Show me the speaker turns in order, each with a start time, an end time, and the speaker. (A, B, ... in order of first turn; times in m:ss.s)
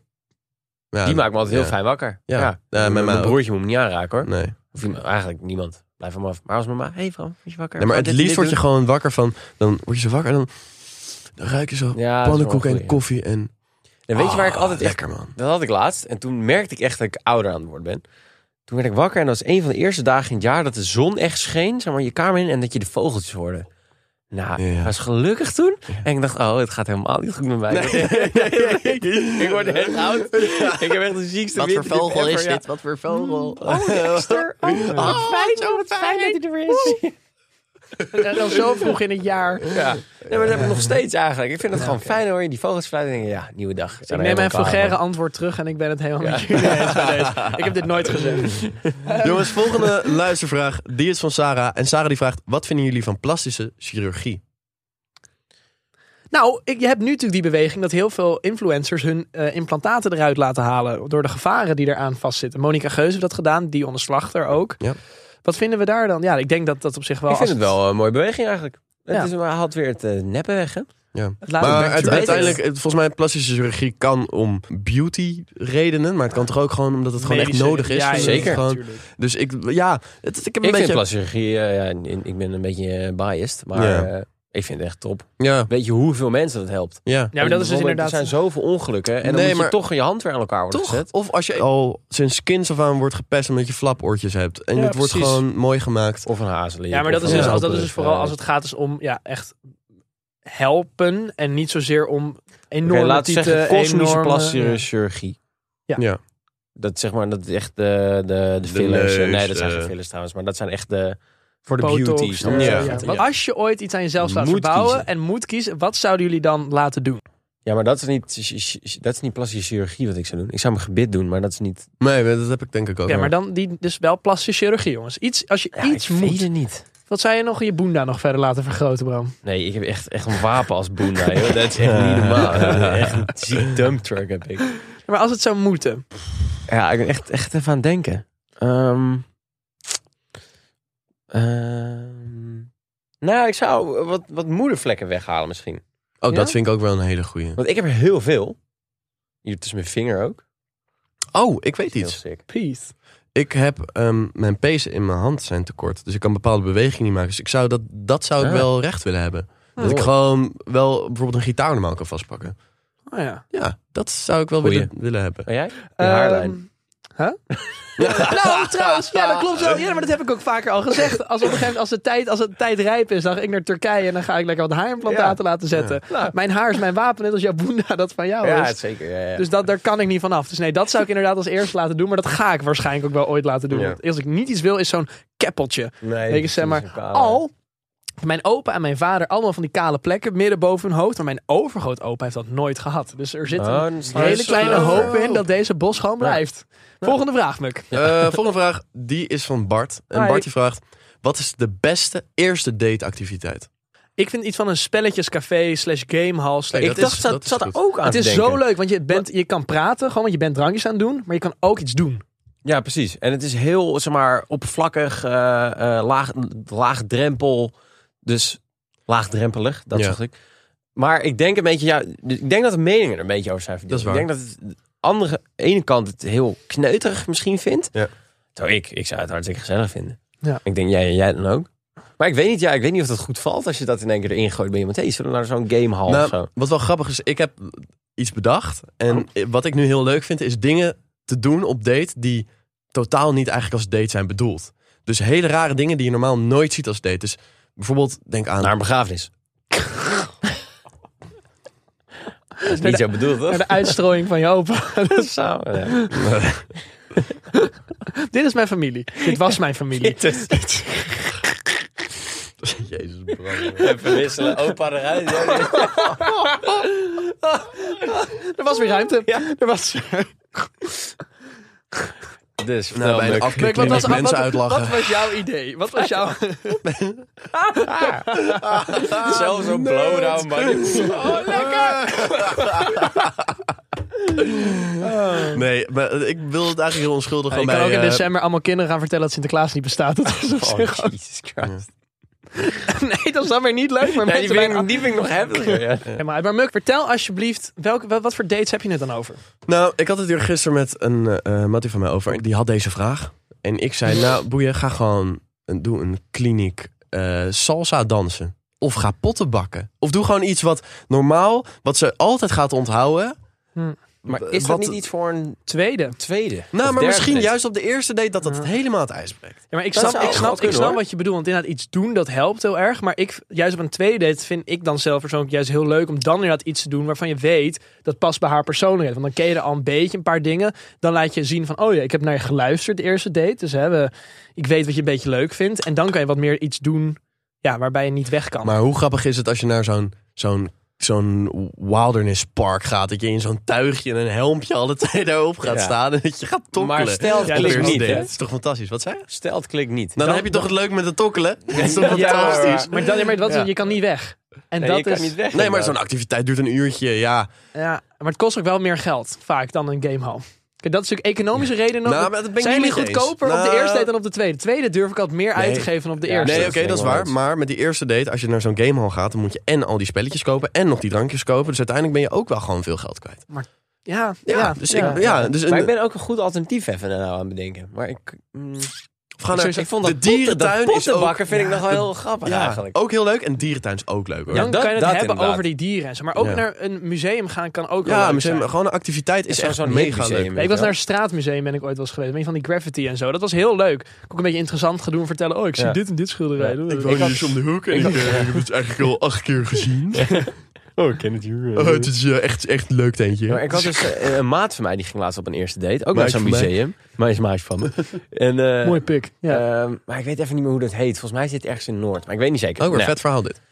0:00.9-0:03.4 A
0:01.0-0:08.6 B
0:04.2-0:04.5 A
0:07.8-0:10.5 A
0:11.3-0:13.5 A
0:11.9-0:13.0 B
0:14.1-0:18.0 B
0:14.1-0:15.3 A
0:18.7-0:23.7 B
0:24.3-0:32.6 B
0:24.6-0:24.9 A
0:27.7-0:31.0 A
0:31.5-0:37.0 A
0:33.2-0:37.1 B
0:34.9-0:35.2 C
0:38.1-0:39.8 C
0:39.7-0:45.0 B
0:40.3-0:40.7 A
0:44.1-0:49.5 C
0:46.2-0:46.9 B
0:46.8-0:47.7 A
0:48.5-0:48.9 B
0:49.2-0:54.4 A
0:56.3-1:04.8 C
1:05.4-1:07.7 C
1:07.3-1:10.9 B
1:11.1-1:21.0 A
1:11.4-1:12.6 C
1:11.5-1:12.6 B
1:17.2-1:19.0 C
1:18.2-1:18.6 B
1:20.6-1:31.1 B
1:23.7-1:24.1 A
1:25.4-1:25.7 A
1:27.0-1:27.3 A
1:27.3-1:28.3 C
1:29.2-1:29.8 A
1:30.7-1:36.3 A
1:34.8-1:35.3 B
1:34.8-1:35.2 C
1:36.2-1:38.4 B
1:36.9-1:39.6 C
1:37.2-1:37.6 A
1:40.4-1:44.8 C
1:42.8-1:45.4 B
1:46.8-1:53.2 B
1:48.6-1:49.9 A
1:51.8-1:57.2 C
1:52.4-1:53.2 A
1:54.2-1:55.0 B
1:57.6-2:01.9 B
2:02.0-2:03.3 A
2:03.1-2:06.4 C
2:05.8-2:06.8 B
2:07.1-2:09.3 C
2:09.4-2:14.7 B
2:11.8-2:13.8 A
2:12.5-2:13.1 C
2:15.0-2:16.0 C
2:16.7-2:19.2 B
2:21.3-2:22.7 B
2:23.2-2:25.8 B
2:26.2-2:27.6 A
2:26.3-2:26.6 C
2:27.6-2:28.6 B
2:29.4-2:30.4 B
2:31.3-2:32.2 A
2:32.0-2:32.4 B
2:32.5-2:32.9 C
2:33.3-2:42.5 A
2:38.4-2:38.7 B
2:39.8-2:40.1 B
2:43.1-2:43.4 C
2:43.5-2:45.5 A
2:44.6-2:44.9 B
2:45.4-2:46.6 B
2:46.0-2:47.4 C
2:48.0-2:48.8 A
2:48.0-2:48.3 B
2:48.1-2:58.8 C
2:55.0-2:55.4 B
2:56.1-2:56.3 B
2:58.4-2:59.5 B
2:59.4-3:07.5 C
3:06.0-3:07.4 B
3:08.2-3:17.9 C
3:13.6-3:15.1 B
3:14.1-3:15.4 A
3:17.9-3:23.7 A
3:20.1-3:20.4 C
3:24.2-3:27.2 C
3:26.7-3:27.8 A
3:26.8-3:29.2 B
3:28.0-3:32.2 C
3:32.6-3:37.7 B
3:38.2-3:40.3 B
3:41.0-3:47.9 B
3:43.9-3:44.3 A
3:48.6-3:51.7 B
3:52.2-3:56.5 B
3:56.1-4:08.7 A
4:08.6-4:09.3 B
4:12.6-4:15.3 C
4:12.6-4:14.0 B
4:15.1-4:16.1 B
4:16.2-4:16.6 A
4:18.1-4:21.0 C
4:20.0-4:21.1 B
4:22.6-4:23.9 A
4:23.8-4:26.2 B
4:25.6-4:27.0 C
4:27.8-4:30.9 C
4:32.6-4:34.2 B
4:32.9-4:35.3 A
4:33.5-4:36.8 C
4:36.8-4:37.3 A
4:37.7-4:39.3 C
4:37.9-4:38.3 B
4:38.5-4:43.5 A
4:39.0-4:41.5 B
4:40.9-4:43.2 C
4:44.4-4:48.3 A
4:45.0-4:45.6 C
4:47.5-4:51.1 C
4:50.4-4:51.9 B
4:52.6-4:55.0 C
4:54.2-4:56.1 B
4:55.6-4:59.4 C
4:59.6-5:13.4 A
5:14.2-5:15.0 A
5:14.2-5:17.5 B
5:15.7-5:16.2 C
5:16.7-5:20.8 A
5:19.7-5:38.8 C
5:19.9-5:21.0 B
5:38.6-5:49.3 A
5:45.6-5:46.0 B
5:46.8-5:48.3 B
5:47.4-5:48.3 C
5:49.3-5:50.2 B
5:50.2-5:53.7 A
5:50.2-5:50.7 C
5:51.8-5:52.9 B
5:51.8-5:55.3 C
5:54.8-5:56.0 B
5:55.5-5:57.5 A
5:57.7-6:06.7 C
6:02.0-6:04.1 A
6:05.6-6:07.3 B
6:06.4-6:13.4 A
6:13.5-6:15.4 C
6:14.4-6:15.9 A
6:14.9-6:18.9 B
6:19.4-6:24.7 A
6:19.5-6:22.9 B
6:21.5-6:21.8 C
6:24.5-6:25.6 B
6:24.5-6:28.7 C
6:26.4-6:26.6 A
6:28.0-6:30.5 A
6:29.5-6:30.9 B
6:30.6-6:37.4 C
6:36.6-6:38.5 B
6:36.9-6:40.3 A
6:37.9-6:38.4 C
6:40.2-6:42.1 B
6:41.8-6:44.2 A
6:43.5-6:53.2 B
6:46.1-6:46.7 A
6:48.8-6:49.6 C
6:52.8-6:53.6 A